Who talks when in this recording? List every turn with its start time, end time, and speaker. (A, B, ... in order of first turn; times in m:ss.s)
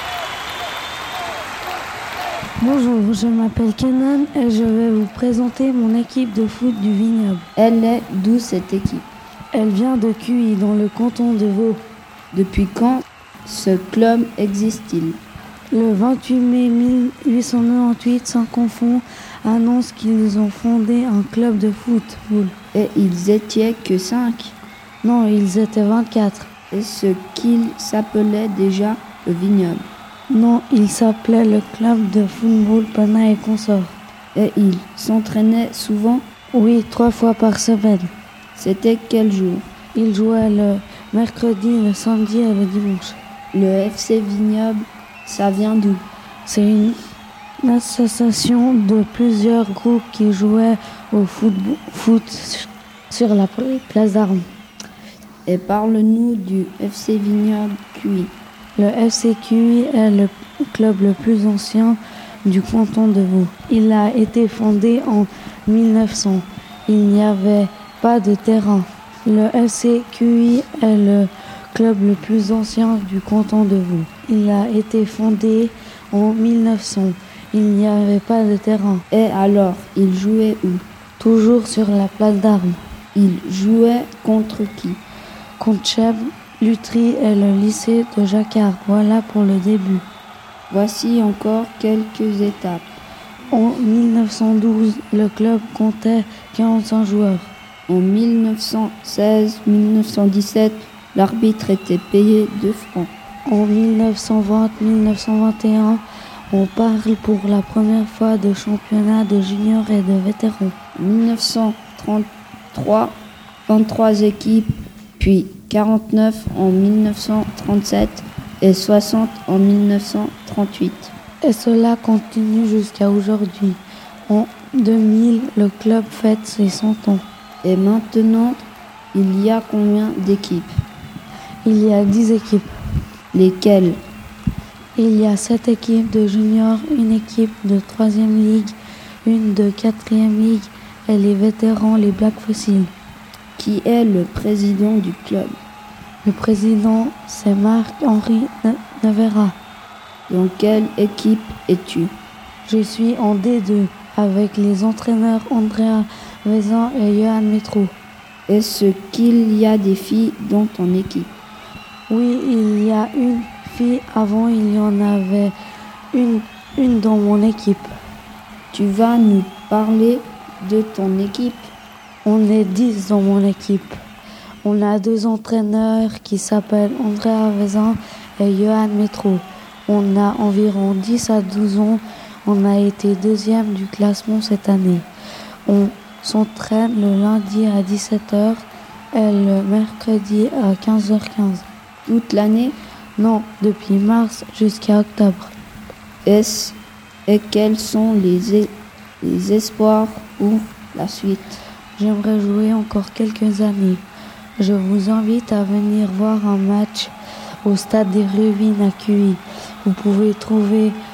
0:02.6-0:07.5 A
0:07.6-0:09.1 B
0:09.5-0:11.8 A
0:12.3-0:15.2 B
0:15.7-0:22.6 A
0:22.7-0:24.6 B
0:25.0-0:26.5 A
0:26.7-0:29.9 B
0:30.3-0:34.0 A
0:34.4-0:36.2 B
0:36.5-0:38.1 A
0:38.6-0:39.7 B
0:40.0-0:43.2 A
0:43.5-0:46.0 B
0:46.5-0:47.0 A
0:47.6-0:54.4 A
0:55.5-0:58.3 B
0:58.8-1:19.0 A
1:19.1-1:20.8 B
1:21.2-1:22.8 A
1:23.2-1:25.0 B
1:25.6-1:30.0 A
1:30.7-1:32.8 B
1:33.5-1:37.5 A
1:37.9-1:43.1 B
1:43.5-1:50.8 A
1:51.0-2:01.1 B
2:01.4-2:07.2 A
2:07.6-2:10.7 B
2:11.6-2:12.7 A
2:13.3-2:14.0 B
2:15.0-2:22.9 A
2:23.6-2:25.6 B
2:26.2-2:29.6 A
2:30.3-2:32.1 B
2:32.7-2:37.9 A
2:38.5-2:41.3 B
2:42.1-2:45.5 A
2:46.1-2:47.9 A
2:48.7-2:51.7 B
2:52.2-2:54.0 A
2:54.6-3:05.1 A
3:05.7-3:11.6 A
3:12.0-3:12.8 B
3:13.2-3:15.5 A
3:16.2-3:21.6 B
3:22.0-3:24.0 A
3:24.6-3:31.0 A